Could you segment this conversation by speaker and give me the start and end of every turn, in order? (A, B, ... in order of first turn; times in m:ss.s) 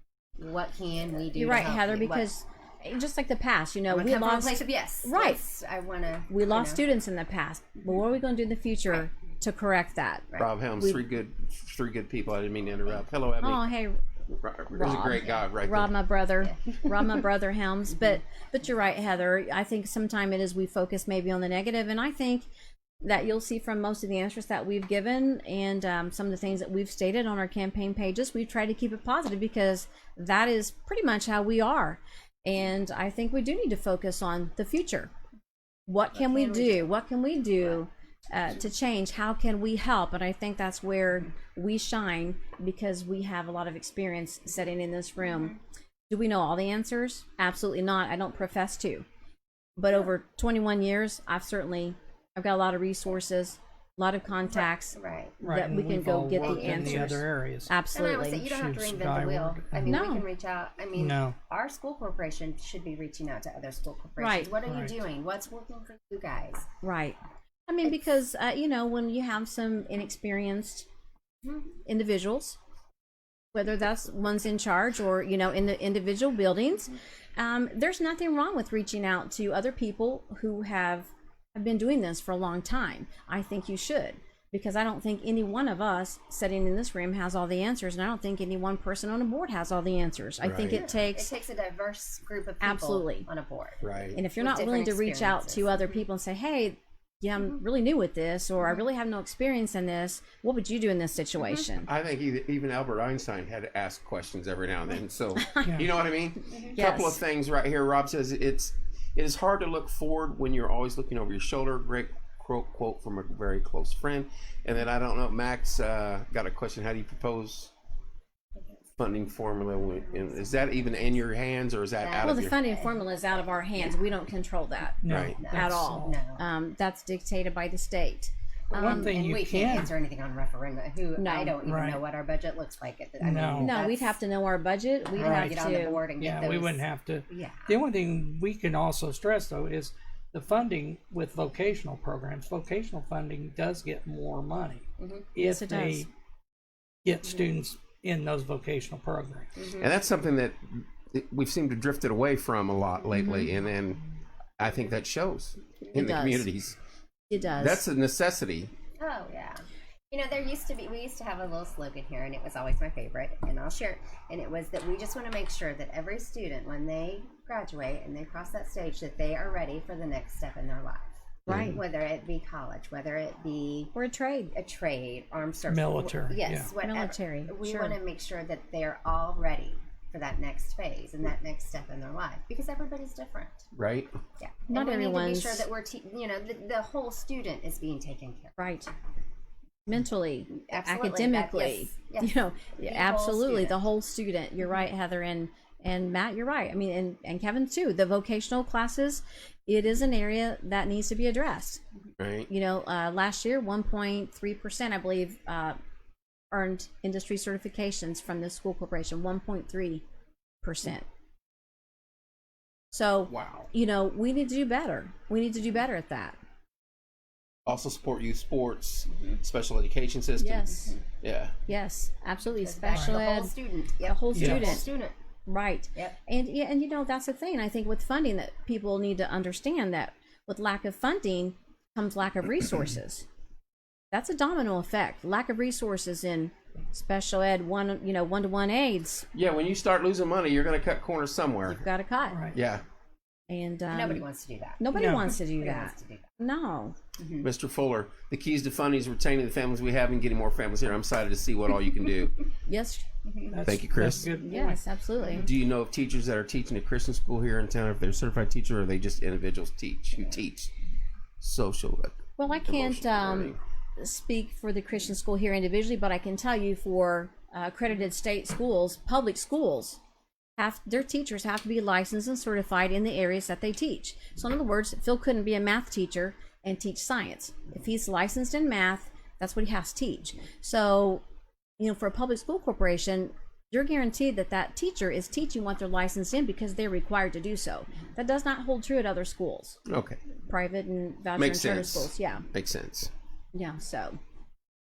0:00.4-0:02.3 A
0:01.3-0:05.4 B
0:03.9-0:06.8 A
0:06.3-0:10.3 B
0:10.4-0:13.7 C
0:13.4-0:14.0 B
0:14.4-0:15.9 C
0:14.7-0:22.5 B
0:15.1-0:15.4 A
0:16.4-0:17.2 A
0:23.0-0:35.1 B
0:35.9-0:45.6 B
0:36.1-0:36.9 A
0:46.1-0:49.0 B
0:49.8-0:58.4 B
0:54.5-0:55.4 A
0:55.4-0:57.7 D
0:56.4-0:57.2 A
0:57.9-1:06.7 A
0:58.3-1:00.0 D
0:59.8-1:00.2 B
1:00.9-1:01.4 D
1:04.2-1:04.5 B
1:04.6-1:04.9 D
1:06.8-1:10.9 B
1:11.8-1:12.6 B
1:13.5-1:31.3 B
1:30.4-1:30.8 C
1:30.6-1:36.0 A
1:32.6-1:33.3 B
1:33.8-1:34.2 C
1:34.1-1:41.9 B
1:41.4-1:41.6 A
1:41.8-1:57.7 C
1:45.4-1:45.7 B
1:46.5-1:46.7 A
1:46.7-1:47.2 B
1:59.0-2:02.5 C
2:02.0-2:04.0 A
2:02.2-2:09.1 B
2:05.0-2:06.2 D
2:05.1-2:05.4 C
2:05.2-2:06.4 A
2:08.7-2:09.9 D
2:08.7-2:14.2 A
2:11.2-2:11.6 B
2:11.6-2:12.0 D
2:13.2-2:13.7 D
2:13.6-2:16.0 B
2:15.1-2:17.8 A
2:15.1-2:26.1 D
2:25.0-2:25.3 A
2:25.4-2:26.1 B
2:27.0-2:29.6 D
2:29.6-2:29.9 A
2:29.8-2:34.0 C
2:33.1-2:33.5 B
2:34.6-2:36.8 C
2:35.9-2:36.5 B
2:37.3-2:37.8 B
2:37.6-2:38.7 C
2:39.0-2:53.9 A
2:51.5-2:51.8 C
2:51.5-2:51.8 B
2:53.9-2:54.5 B
2:54.5-3:03.7 A
2:55.7-2:56.7 D
2:56.3-2:58.0 B
3:03.7-3:04.2 C
3:04.4-3:08.8 A
3:04.7-3:05.7 B
3:08.6-3:08.9 B
3:09.8-3:21.8 B
3:10.5-3:13.9 A
3:22.2-3:22.5 C
3:22.5-3:25.8 B
3:26.5-3:30.0 B
3:30.6-3:31.0 B
3:32.9-3:36.4 B
3:33.3-3:33.7 C
3:37.6-3:41.5 C
3:40.4-3:41.0 B
3:41.7-3:44.9 B
3:42.6-3:45.1 A
3:42.9-3:43.2 D
3:44.3-3:44.8 D
3:45.5-3:53.2 B
3:54.1-3:59.3 B
3:59.3-4:01.8 C
4:01.7-4:02.4 B
4:02.2-4:02.6 D
4:02.5-4:02.8 C
4:03.5-4:04.2 B
4:03.9-4:06.3 A
4:04.8-4:07.0 B
4:04.9-4:05.3 D
4:07.2-4:07.5 A
4:07.4-4:12.4 C
4:12.7-4:13.0 B
4:13.2-4:13.6 A
4:13.5-4:14.8 D
4:13.6-4:14.3 C
4:14.2-4:15.5 B
4:15.2-4:15.4 A
4:15.4-4:20.7 C
4:21.4-4:23.6 C
4:22.4-4:30.0 B
4:30.6-4:41.2 B
4:41.8-4:49.8 B
4:49.9-4:50.2 C
4:50.4-4:52.4 B
4:51.4-4:53.1 C
4:53.5-4:54.2 B